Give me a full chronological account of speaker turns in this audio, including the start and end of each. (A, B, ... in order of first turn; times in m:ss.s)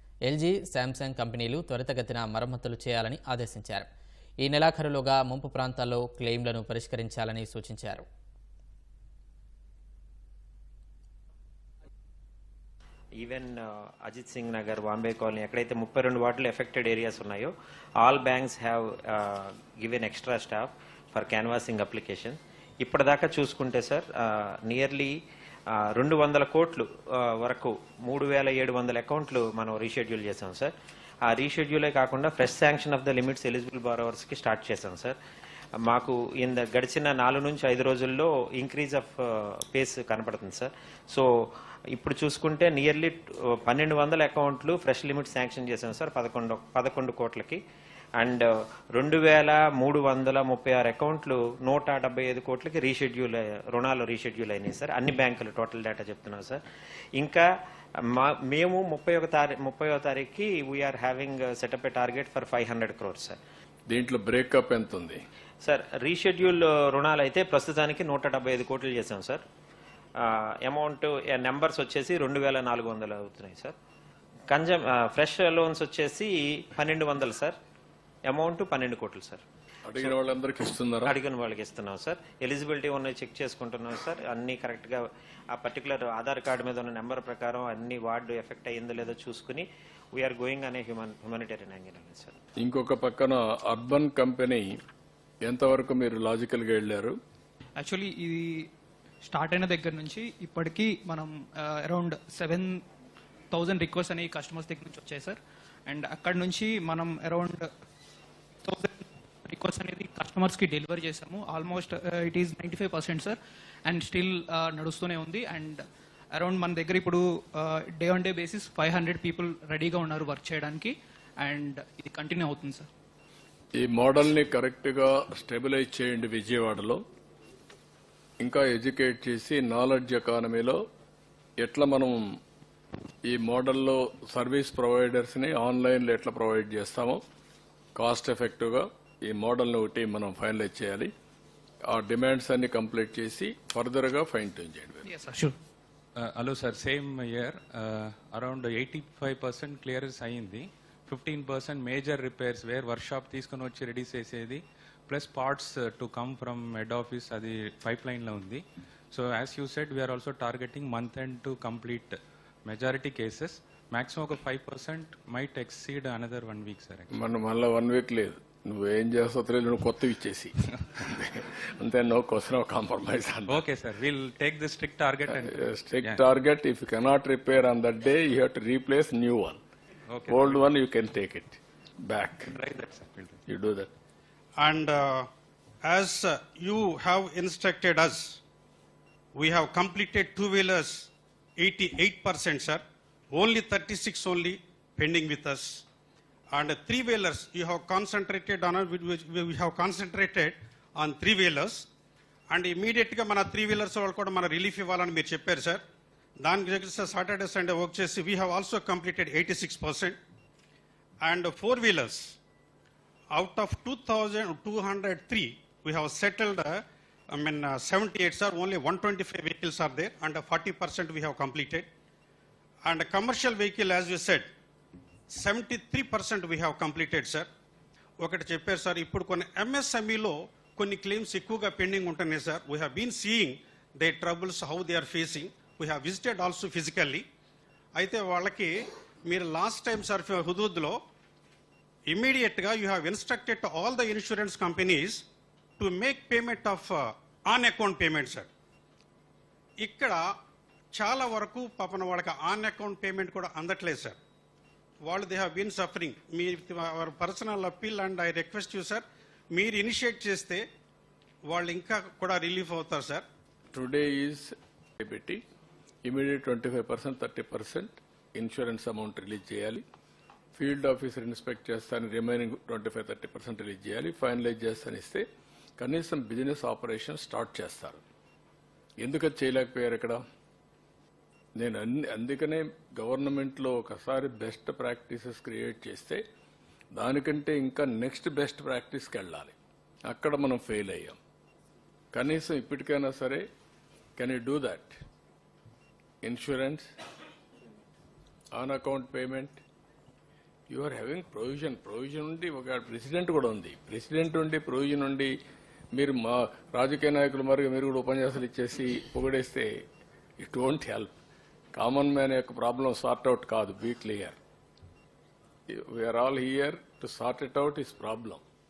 0:00.3-0:03.9 A
0:04.4-0:08.0 A
0:13.2-0:17.5 B
0:18.0-0:25.1 B
0:26.0-0:26.9 B
0:27.4-0:30.7 B
0:31.3-0:35.2 B
0:35.9-0:41.3 B
0:42.0-0:47.6 B
0:48.2-0:56.6 B
0:58.2-1:03.4 B
1:03.9-1:05.2 C
1:05.6-1:09.4 B
1:10.2-1:13.8 B
1:14.5-1:17.5 B
1:18.3-1:19.4 B
1:19.8-1:21.2 C
1:21.0-1:25.0 B
1:25.5-1:32.4 B
1:32.6-1:34.7 C
1:35.5-1:37.2 C
1:37.8-1:38.5 D
1:39.2-1:42.8 D
1:43.5-1:47.7 D
1:48.6-1:55.8 D
1:56.4-2:02.9 D
2:03.8-2:07.0 C
2:08.4-2:10.8 C
2:11.6-2:12.2 C
2:13.3-2:17.2 C
2:18.0-2:21.1 C
2:21.9-2:25.0 C
2:25.1-2:25.5 D
2:26.2-2:47.1 E
2:47.1-2:53.6 C
2:53.5-2:56.2 E
2:55.4-2:59.6 C
3:00.1-3:00.6 E
3:00.3-3:02.5 C
3:02.5-3:03.4 E
3:03.5-3:03.9 C
3:04.6-3:05.3 F
3:05.8-3:08.4 F
3:09.4-3:15.8 F
3:16.5-3:21.9 F
3:22.5-3:25.8 F
3:26.4-3:30.2 F
3:31.2-3:32.4 F
3:33.3-3:36.8 F
3:37.3-3:41.9 F
3:42.8-3:44.5 F
3:45.4-3:47.5 F
3:48.2-3:57.2 F
3:58.0-3:58.7 F
3:59.3-4:01.0 F
4:02.1-4:05.2 F
4:05.8-4:08.5 F
4:09.8-4:10.2 F
4:11.0-4:14.2 F
4:15.1-4:20.6 F
4:21.5-4:23.2 F
4:23.7-4:25.4 C
4:26.0-4:29.8 C
4:30.6-4:35.2 C
4:35.8-4:38.0 C
4:39.0-4:40.2 C
4:41.6-4:46.2 C
4:46.9-4:49.6 C
4:50.1-4:51.2 C
4:52.1-4:53.4 C
4:54.2-4:55.0 C
4:56.2-4:56.9 C
4:58.6-4:59.6 C
5:00.7-5:05.3 C
5:06.0-5:09.7 C
5:10.4-5:11.1 C
5:11.7-5:14.4 C
5:15.7-5:18.4 C